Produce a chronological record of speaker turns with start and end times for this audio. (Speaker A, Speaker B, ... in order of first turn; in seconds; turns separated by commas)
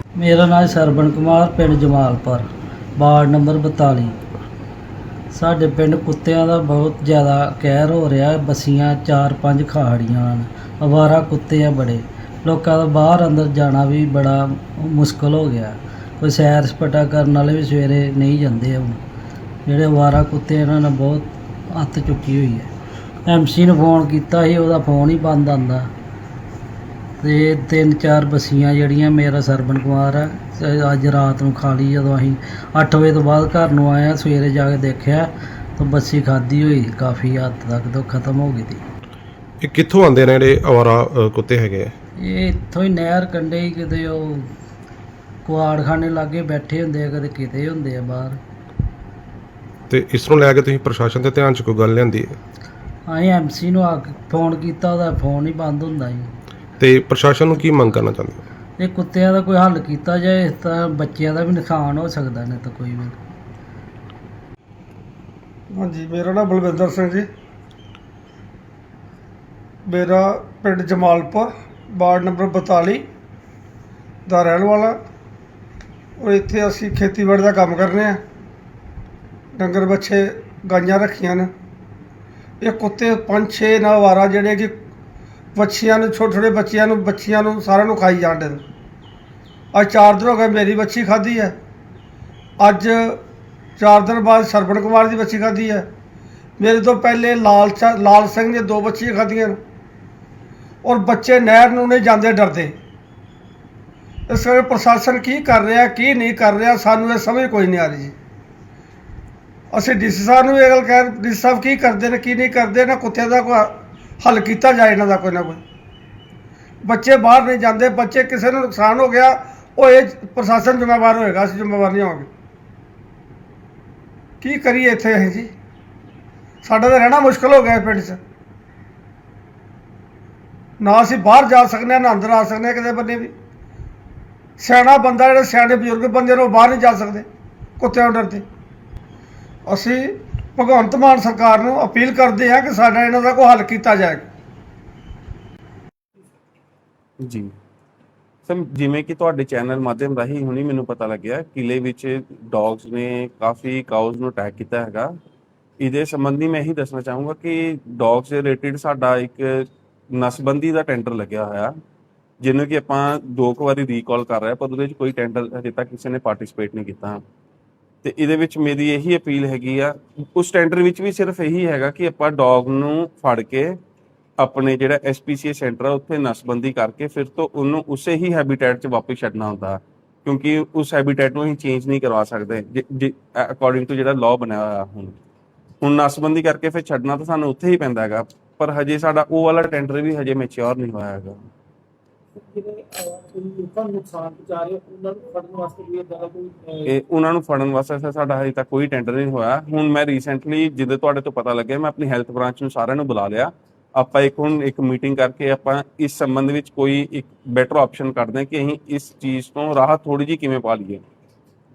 Speaker A: 0.2-4.2, Speaker A: 5.3-19.0, Speaker A: 19.6-22.7, Speaker A: 23.3-25.9, Speaker A: 27.2-38.8, Speaker B: 39.6-41.9, Speaker A: 42.2-44.5, Speaker A: 45.4-48.4, Speaker B: 49.9-52.3, Speaker A: 53.1-56.3, Speaker B: 56.8-58.4, Speaker A: 58.8-63.2, Speaker C: 65.7-67.3, Speaker C: 69.9-73.0, Speaker C: 74.3-75.0, Speaker C: 76.2-78.2, Speaker C: 79.5-81.5, Speaker C: 82.6-84.8, Speaker C: 85.5-88.6, Speaker C: 89.7-91.5, Speaker C: 92.6-93.2, Speaker C: 93.8-95.9, Speaker C: 96.6-99.6, Speaker C: 100.8-102.7, Speaker C: 104.3-108.1, Speaker C: 109.7-115.6, Speaker C: 116.8-122.3, Speaker C: 124.4-125.5, Speaker C: 126.6-128.2, Speaker C: 130.8-133.3, Speaker C: 134.6-137.2, Speaker C: 137.8-138.4, Speaker C: 139.7-144.2, Speaker D: 147.2-147.5, Speaker D: 148.4-155.1, Speaker D: 155.8-161.8, Speaker D: 162.4-167.2, Speaker D: 168.0-173.8, Speaker D: 174.4-185.2, Speaker D: 185.8-191.4, Speaker E: 192.3-196.9, Speaker D: 196.9-211.0